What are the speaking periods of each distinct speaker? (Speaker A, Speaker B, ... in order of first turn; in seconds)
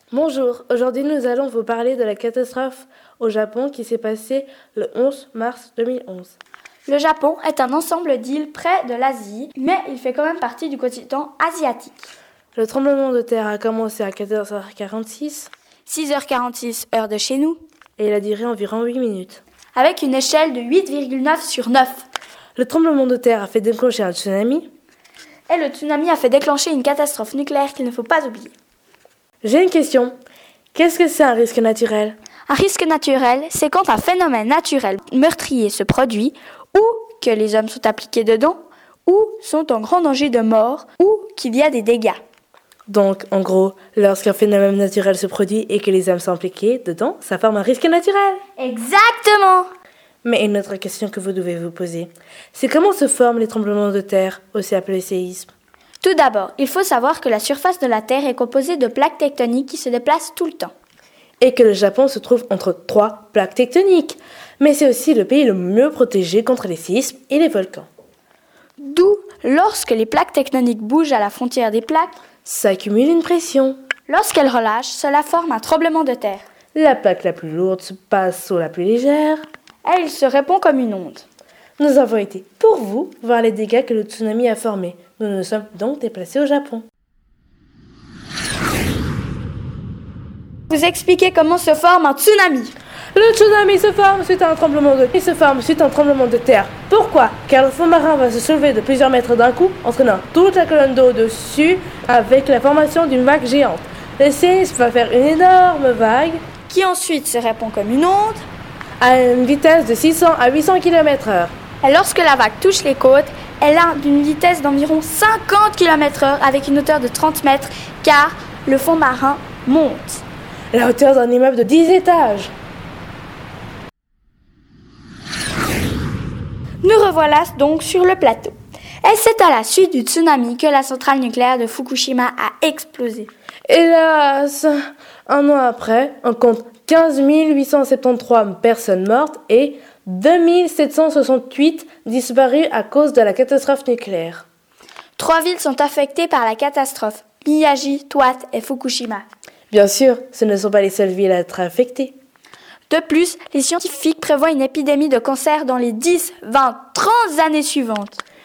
Speaker A: 0.1-6.4, 12.6-15.5, 18.0-19.4, 22.6-24.7, 29.4-30.1, 30.7-32.2, 42.9-48.4, 50.2-55.5, 61.4-67.9, 72.5-73.8, 76.7-79.4, 81.8-86.9, 93.1-106.4, 109.0-111.5, 120.7-122.5, 133.7-144.5, 149.7-152.2
Speaker B: 6.9-12.1, 15.9-17.6, 19.8-22.1, 25.5-28.5, 32.5-42.2, 48.6-49.7, 56.0-60.7, 68.8-72.2, 74.1-76.5, 79.8-81.3, 90.7-92.7, 106.7-108.4, 111.8-120.2, 126.8-133.3, 145.2-149.2, 152.9-158.2